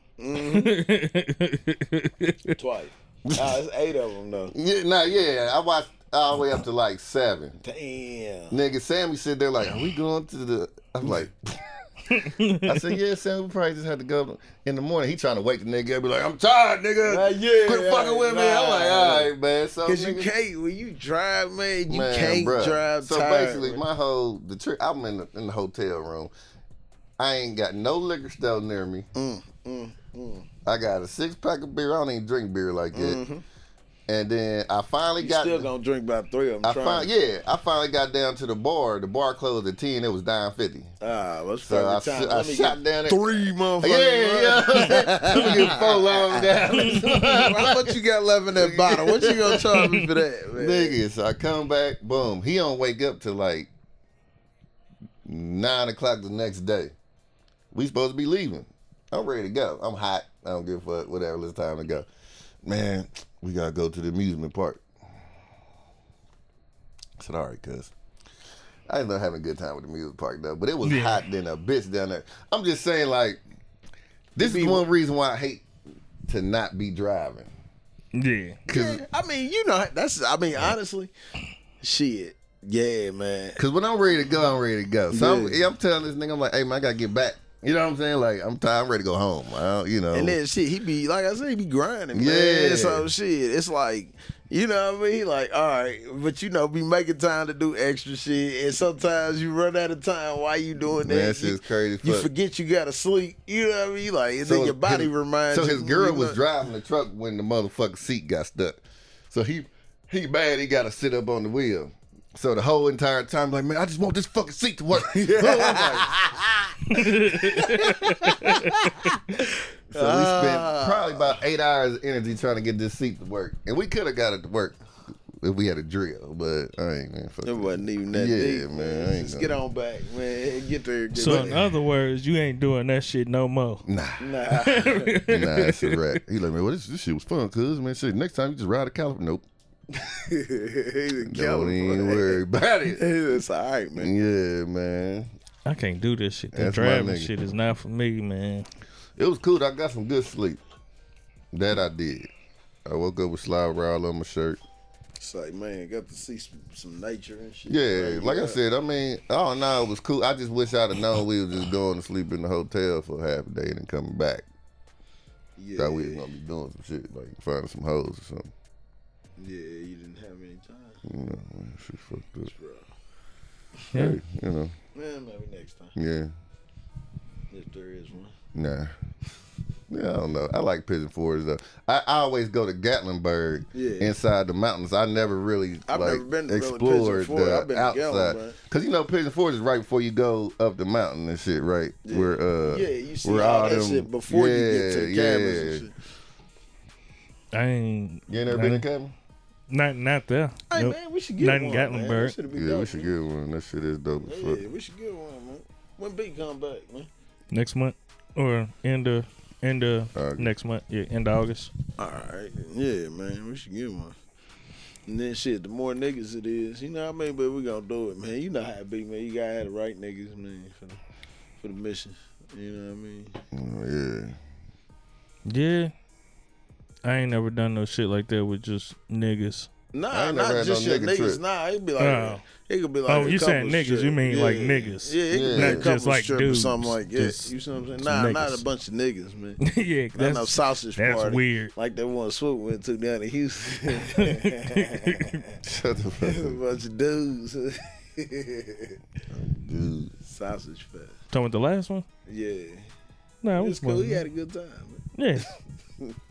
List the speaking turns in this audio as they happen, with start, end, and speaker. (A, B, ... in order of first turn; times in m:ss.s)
0:00.2-0:00.8 A
0:00.3-0:02.6 B
0:02.6-0:04.5 A
0:03.2-0:03.6 C
0:04.5-0:07.6 C
0:07.6-0:08.5 A
0:08.5-0:11.8 C
0:12.1-0:12.9 B
0:12.6-0:20.3 C
0:17.0-0:19.3 A
0:19.8-0:23.8 A
0:21.9-0:26.3 C
0:27.2-0:29.1 C
0:29.1-0:30.5 A
0:30.6-0:33.2 C
0:32.9-0:33.4 A
0:34.1-0:35.7 C
0:35.2-0:37.1 A
0:36.6-0:40.9 C
0:41.0-0:51.0 A
0:41.6-0:48.0 C
0:46.7-0:47.2 B
0:48.6-0:50.0 C
0:50.5-0:53.7 C
0:55.2-0:56.9 C
0:57.7-1:02.1 C
1:02.6-1:04.8 C
1:07.2-1:07.9 C
1:08.9-1:13.4 C
1:10.8-1:11.2 B
1:14.4-1:15.6 C
1:14.4-1:14.8 A
1:16.3-1:17.5 C
1:18.1-1:18.6 B
1:18.7-1:19.0 C
1:18.7-1:21.1 A
1:21.8-1:23.6 A
1:23.6-1:30.4 C
1:25.1-1:25.6 A
1:30.1-1:46.4 A
1:32.1-1:33.1 C
1:41.0-1:42.3 C
1:44.4-1:56.1 C
1:55.0-1:56.8 A
1:56.9-1:58.7 B
1:57.4-2:01.4 A
1:59.9-2:04.8 C
2:05.4-2:09.6 C
2:07.4-2:11.6 A
2:11.1-2:13.8 B
2:13.8-2:14.2 C
2:14.2-2:15.2 A
2:14.5-2:16.0 B
2:15.3-2:19.5 C
2:20.0-2:22.4 A
2:21.2-2:23.0 C
2:23.0-2:24.1 A
2:24.0-2:25.3 C
2:25.6-2:28.7 B
2:26.5-2:27.4 C
2:29.2-2:30.6 C
2:31.5-2:32.3 C
2:32.8-2:34.6 C
2:35.2-2:38.6 A
2:37.7-2:44.4 C
2:45.6-2:46.2 A
2:45.8-2:48.5 C
2:49.4-2:51.0 A
2:51.0-2:52.5 C
2:52.5-2:52.9 A
2:53.9-2:54.8 C
2:54.9-2:55.9 A
2:55.9-2:56.3 C
2:57.5-2:58.3 A
2:58.5-2:58.9 C
2:59.9-3:15.8 C
3:03.7-3:04.1 A
3:05.9-3:08.6 A
3:12.0-3:15.9 A
3:17.5-3:18.8 B
3:18.3-3:19.1 C
3:19.7-3:22.3 B
3:20.7-3:23.1 A
3:22.5-3:24.6 C
3:24.2-3:27.1 A
3:27.5-3:31.7 B
3:30.1-3:30.5 C
3:32.0-3:34.2 A
3:35.1-3:41.0 A
3:41.6-3:43.4 A
3:43.5-3:44.4 C
3:45.4-3:45.9 B
3:47.0-3:49.7 B
3:49.9-3:59.6 A
3:50.1-3:51.4 C
3:52.0-3:52.4 B
3:53.1-3:57.5 B
3:55.3-3:55.9 C
3:58.0-3:58.6 B
3:59.6-4:01.7 B
4:00.1-4:05.6 A
4:03.9-4:05.4 B
4:05.6-4:06.6 C
4:06.2-4:09.0 A
4:09.3-4:10.1 C
4:10.2-4:11.1 A
4:11.3-4:12.0 B
4:12.3-4:12.9 A
4:13.4-4:14.2 B
4:13.5-4:15.5 A
4:15.1-4:15.5 B